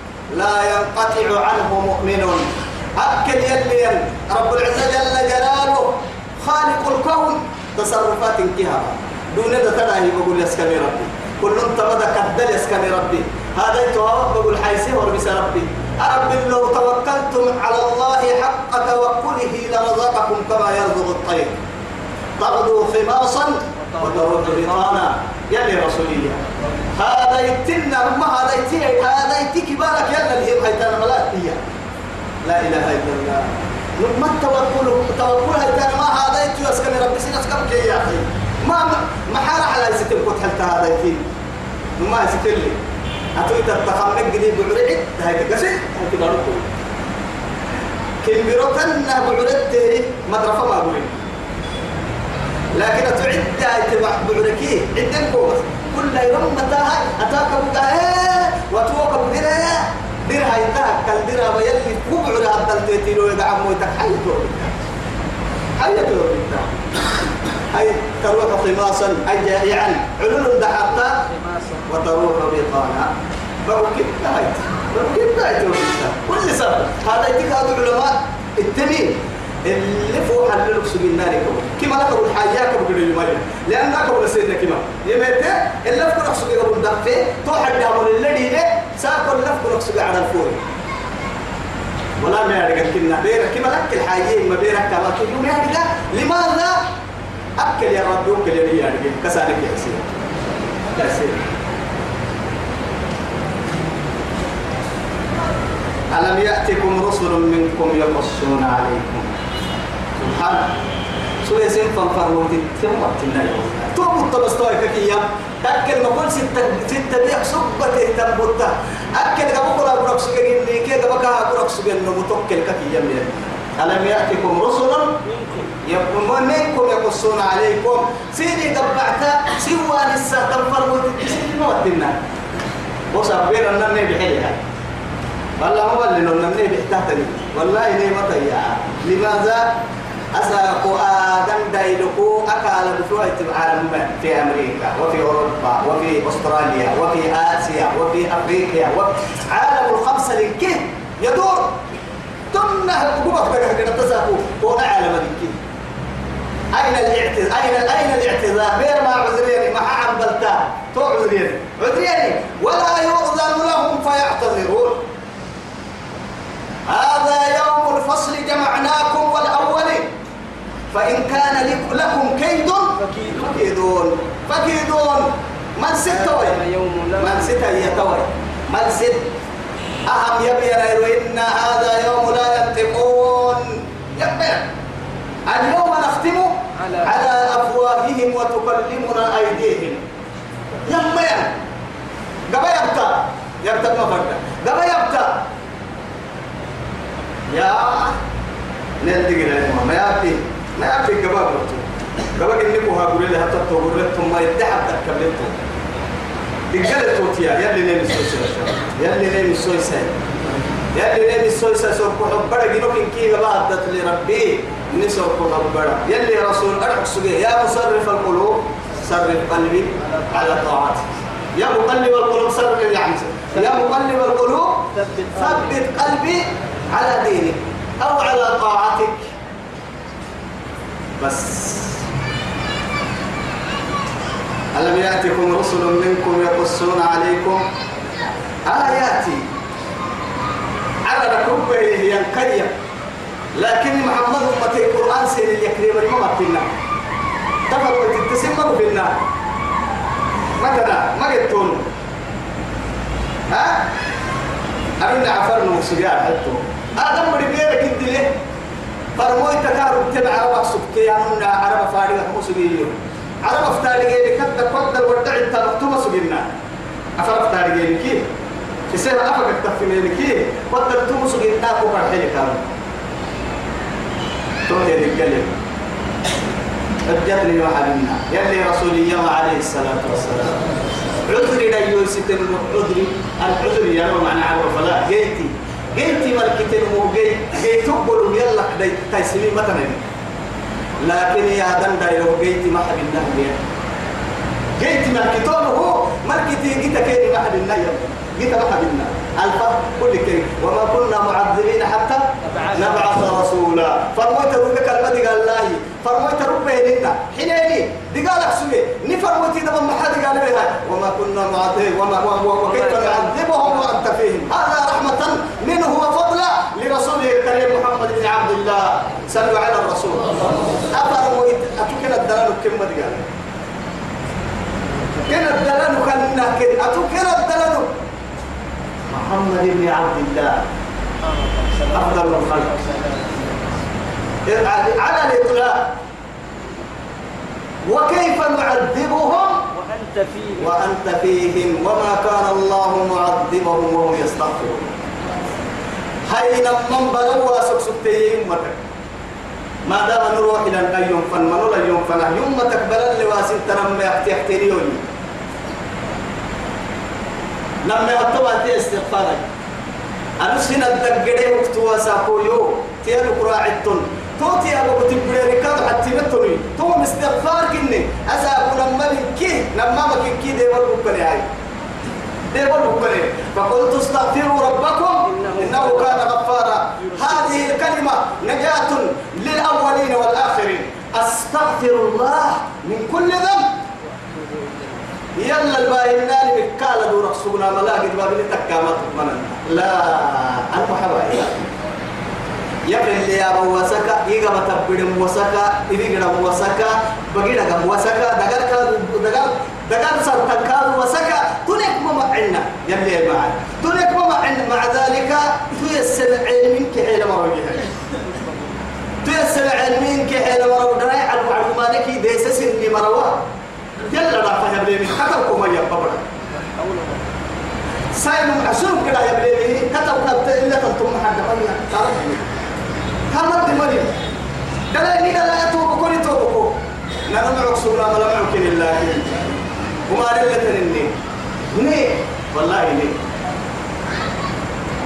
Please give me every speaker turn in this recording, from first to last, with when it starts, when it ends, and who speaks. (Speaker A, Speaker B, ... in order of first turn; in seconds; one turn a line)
Speaker A: 0.3-21.6
Speaker A: 22.4-26.4
Speaker B: 23.9-25.1
Speaker A: 26.9-31.6
Speaker A: 32.4-41.2
Speaker A: 42.0-42.8
Speaker A: 43.4-46.7
Speaker A: 48.2-51.2
Speaker A: 52.7-64.8
Speaker A: 65.8-66.8
Speaker A: 67.7-71.3
Speaker B: 71.2-71.9
Speaker A: 71.9-73.1
Speaker A: 73.7-90.6
Speaker A: 92.2-96.8
Speaker A: 97.6-100.1
Speaker A: 100.9-101.4
Speaker A: 106.1-109.4
Speaker A: 110.2-110.8
Speaker A: 111.4-125.2
Speaker B: 125.3-125.6
Speaker A: 125.8-132.2
Speaker A: 133.1-134.6
Speaker A: 135.6-139.8
Speaker A: 140.3-151.8
Speaker A: 152.5-155.6
Speaker A: 156.7-165.1
Speaker A: 166.9-170.1
Speaker A: 170.9-176.6
Speaker B: 173.0-173.4
Speaker B: 176.1-178.0
Speaker A: 177.2-179.3
Speaker A: 180.1-184.7
Speaker A: 185.5-190.1
Speaker B: 186.8-187.2
Speaker A: 190.9-191.5
Speaker A: 192.5-195.5
Speaker A: 197.5-198.2
Speaker A: 199.0-205.6
Speaker A: 206.7-210.1
Speaker A: 210.9-229.3
Speaker B: 220.1-220.4
Speaker B: 223.6-223.9
Speaker B: 224.9-225.8
Speaker A: 231.2-232.0
Speaker A: 234.7-237.7
Speaker A: 238.7-239.5
Speaker A: 241.1-242.7
Speaker A: 243.6-246.7
Speaker A: 247.7-249.2
Speaker A: 250.6-251.9
Speaker A: 253.5-253.9
Speaker A: 255.0-258.3
Speaker A: 259.2-266.5
Speaker A: 267.2-268.2
Speaker A: 268.9-272.7
Speaker A: 274.7-275.6
Speaker A: 277.1-280.6
Speaker A: 281.2-290.1
Speaker A: 291.0-293.6
Speaker A: 294.8-323.3
Speaker B: 302.4-303.4
Speaker B: 312.6-313.9
Speaker A: 325.3-327.9
Speaker A: 329.1-330.6
Speaker B: 331.2-333.9
Speaker A: 331.9-332.7
Speaker A: 334.5-336.0
Speaker A: 337.9-339.7
Speaker B: 339.7-340.7
Speaker A: 340.6-344.9
Speaker A: 346.3-348.8
Speaker A: 349.9-355.1
Speaker A: 357.8-359.5
Speaker A: 360.4-371.5
Speaker A: 372.5-383.7
Speaker B: 375.3-376.3
Speaker B: 384.2-385.1
Speaker A: 385.4-391.7
Speaker A: 392.9-407.9
Speaker B: 408.2-408.8
Speaker A: 409.2-413.4
Speaker A: 414.1-416.2
Speaker B: 416.5-417.3
Speaker A: 418.1-422.6
Speaker A: 423.3-424.2
Speaker A: 424.9-426.8
Speaker A: 427.3-429.5
Speaker A: 430.1-431.1
Speaker A: 431.7-433.2